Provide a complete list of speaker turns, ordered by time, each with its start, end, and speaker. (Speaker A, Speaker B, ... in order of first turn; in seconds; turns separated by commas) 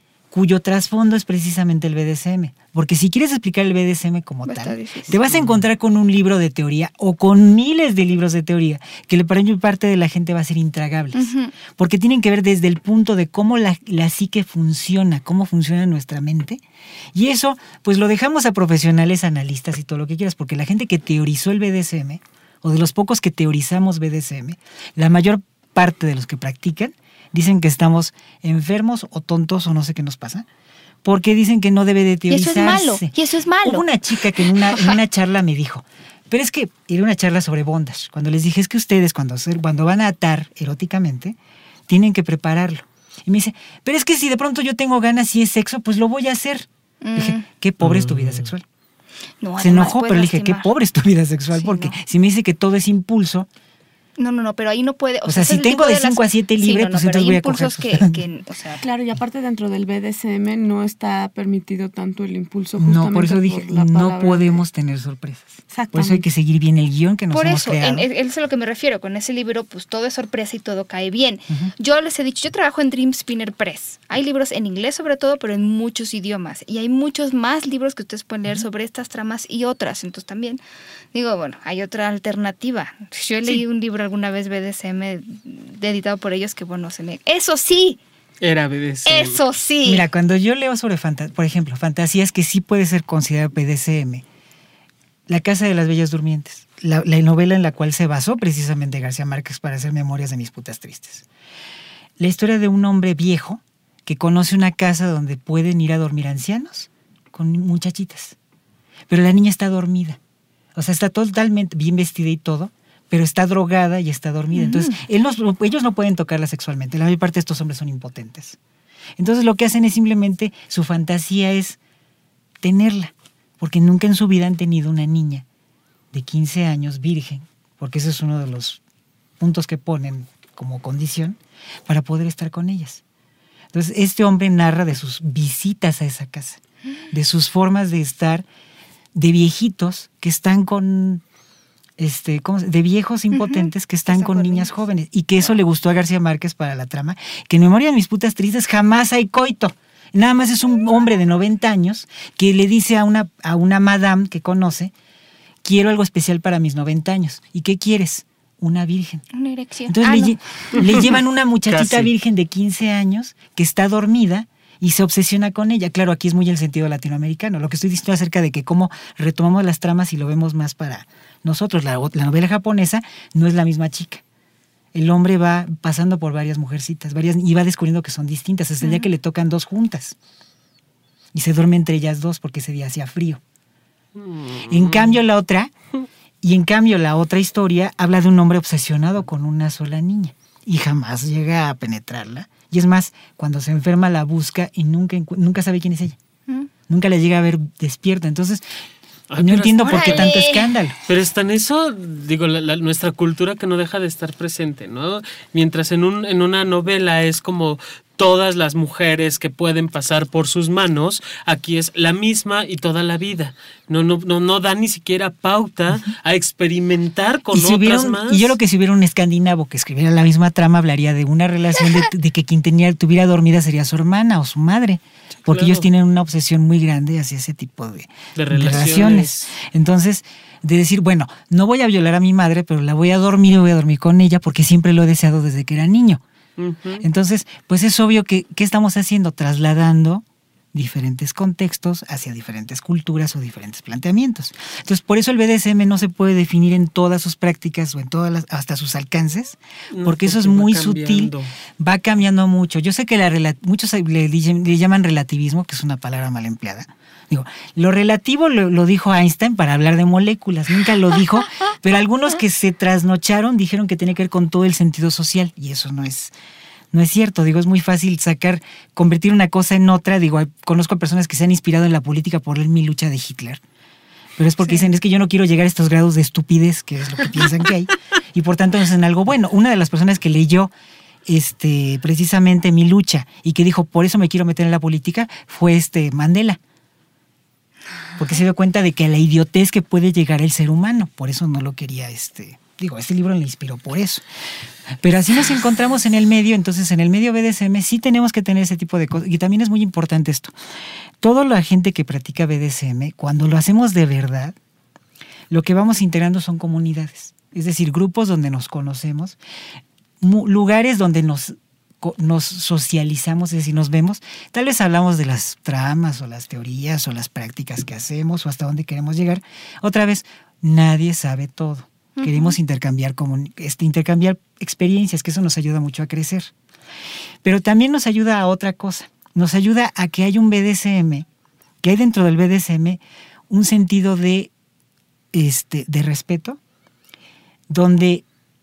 Speaker A: 0.3-16.6, Speaker B: 4.4-5.2, Speaker B: 11.1-11.5, Speaker A: 17.1-30.4, Speaker A: 31.0-41.4, Speaker B: 32.3-33.9, Speaker B: 34.4-34.9, Speaker A: 41.9-48.6, Speaker B: 47.0-47.4, Speaker C: 47.8-48.5, Speaker B: 49.4-50.7, Speaker A: 49.6-53.5, Speaker B: 51.5-52.0, Speaker B: 54.2-58.8, Speaker A: 55.3-58.2, Speaker D: 58.8-64.6, Speaker A: 62.8-68.1, Speaker D: 65.7-66.2, Speaker B: 67.3-80.6, Speaker B: 81.1-88.0, Speaker C: 88.4-89.4, Speaker B: 89.0-90.0, Speaker A: 89.8-94.2, Speaker A: 95.3-101.3, Speaker A: 102.2-108.4, Speaker A: 109.1-110.2, Speaker A: 110.7-118.6, Speaker B: 114.5-115.0, Speaker A: 119.2-121.8, Speaker A: 122.6-125.4, Speaker A: 126.1-128.8, Speaker A: 129.4-133.0, Speaker A: 133.7-136.6, Speaker A: 137.1-138.4, Speaker A: 139.1-141.2, Speaker A: 142.0-154.9, Speaker B: 143.3-144.8, Speaker A: 155.6-159.3, Speaker B: 159.3-161.1, Speaker A: 159.9-174.2, Speaker C: 161.7-162.1, Speaker A: 174.9-180.2, Speaker A: 181.3-183.4, Speaker C: 184.1-185.2, Speaker A: 184.6-185.7, Speaker A: 186.4-196.2, Speaker A: 196.9-198.6, Speaker C: 199.3-200.4, Speaker A: 199.4-201.0, Speaker B: 199.8-200.7, Speaker C: 201.1-218.5, Speaker A: 217.5-236.2, Speaker C: 225.4-225.9, Speaker C: 228.4-229.5, Speaker C: 236.6-237.1, Speaker A: 237.0-266.3, Speaker C: 249.9-251.5, Speaker A: 266.9-273.6, Speaker A: 274.4-280.7, Speaker A: 281.3-286.6, Speaker A: 288.2-294.2, Speaker A: 295.0-300.5, Speaker A: 301.2-304.6, Speaker A: 305.5-309.4, Speaker A: 310.2-326.5, Speaker B: 322.1-322.6, Speaker A: 327.4-331.3, Speaker A: 331.8-334.5, Speaker A: 335.3-336.6, Speaker A: 337.7-338.2